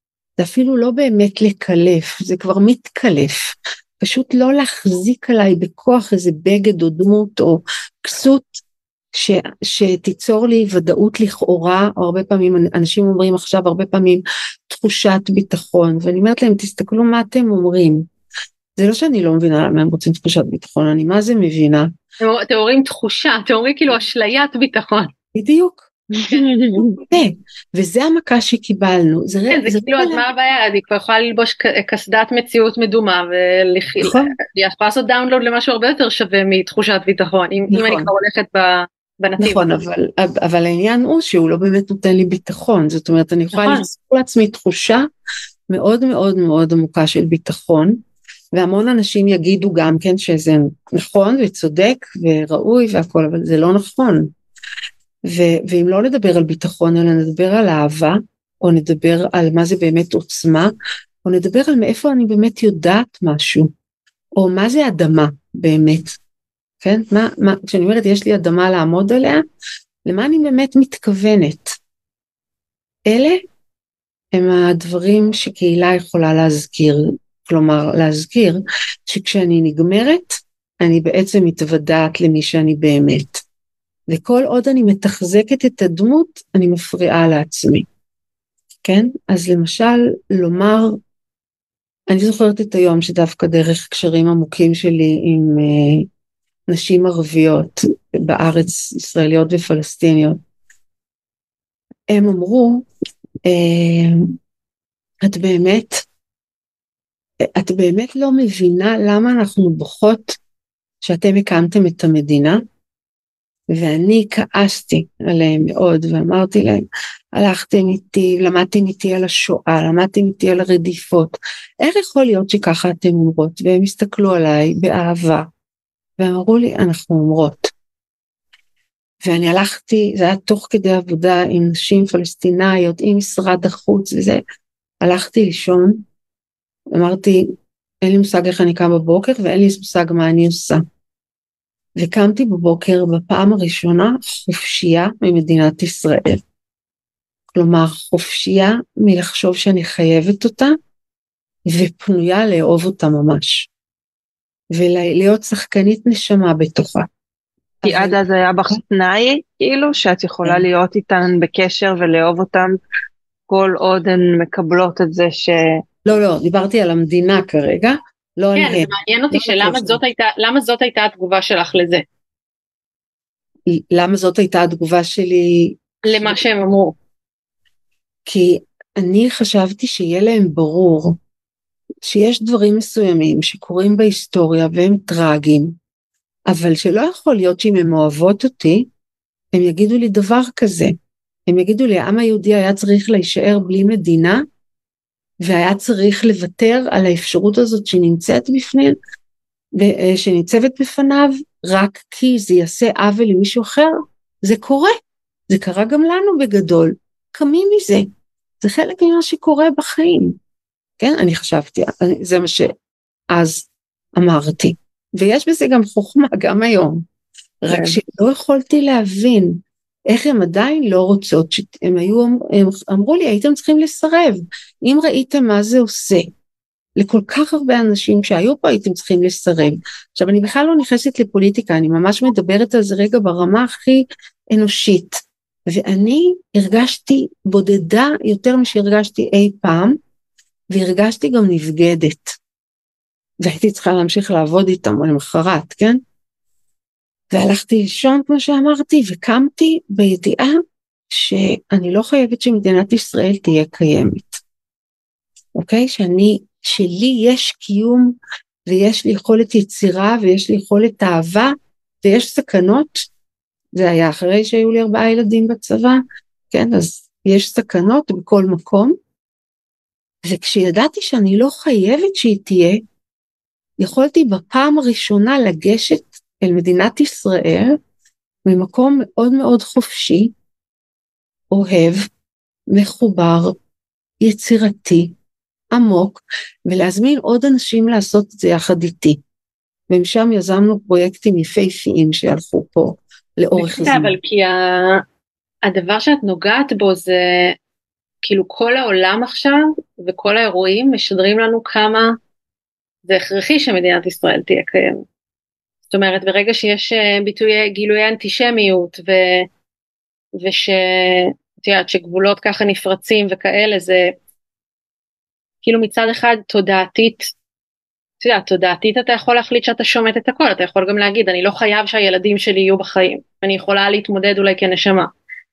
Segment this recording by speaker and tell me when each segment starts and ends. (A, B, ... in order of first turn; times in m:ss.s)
0:00.4-0:08.6 A
0:09.1-0:18.1 A
0:18.8-0:21.9 A
0:22.2-0:25.1 B
0:25.3-0:30.2 A
0:29.5-0:39.6 B
0:34.0-0:34.3 A
0:37.7-0:38.1 A
0:39.4-0:45.0 A
0:43.5-0:43.9 B
0:45.7-0:48.0 A
0:48.5-0:54.3 A
0:55.2-1:00.7 A
1:01.2-1:03.7 A
1:04.4-1:06.2 A
1:06.8-1:09.4 A
1:10.0-1:11.8 A
1:13.0-1:13.4 A
1:14.3-1:23.4 A
1:24.1-1:27.8 A
1:28.8-1:31.0 A
1:32.1-1:36.1 A
1:36.7-1:40.4 A
1:42.1-1:42.8 A
1:43.4-1:44.3 A
1:45.2-1:46.0 A
1:47.4-1:50.4 A
1:51.0-1:52.6 A
1:53.7-2:05.5 A
2:06.2-2:07.7 A
2:09.2-2:14.4 A
2:15.0-2:16.0 A
2:16.9-2:17.5 A
2:18.0-2:20.8 A
2:22.0-2:26.4 A
2:27.5-2:30.8 A
2:31.7-2:33.7 A
2:34.7-2:37.1 A
2:37.8-2:38.2 A
2:37.8-2:42.8 C
2:43.5-2:45.8 C
2:46.0-2:50.0 A
2:48.6-2:52.0 B
2:53.7-2:56.4 A
2:56.0-2:56.9 B
2:58.2-3:01.2 A
3:02.0-3:05.8 A
3:06.5-3:08.9 A
3:09.5-3:10.9 A
3:11.5-3:14.4 A
3:15.4-3:19.0 A
3:19.8-3:25.0 A
3:25.5-3:28.1 A
3:28.6-3:30.4 A
3:31.0-3:32.7 A
3:33.3-3:37.0 A
3:37.6-3:46.3 A
3:37.7-3:38.0 C
3:47.0-4:00.0 A
4:00.7-4:02.4 A
4:03.4-4:06.0 A
4:07.3-4:14.4 A
4:15.5-4:23.0 A
4:23.7-4:29.0 A
4:30.2-4:32.8 A
4:33.8-4:37.8 A
4:38.4-4:40.3 A
4:41.5-4:42.1 A
4:42.7-4:43.5 A
4:44.2-4:45.1 A
4:45.7-4:49.2 A
4:49.9-4:54.2 A
4:53.6-4:55.0 B
4:55.6-4:57.6 B
4:58.2-5:02.2 B
5:03.0-5:05.0 B
5:05.9-5:09.5 B
5:10.4-5:14.1 B
5:15.6-5:17.3 B
5:18.2-5:25.1 B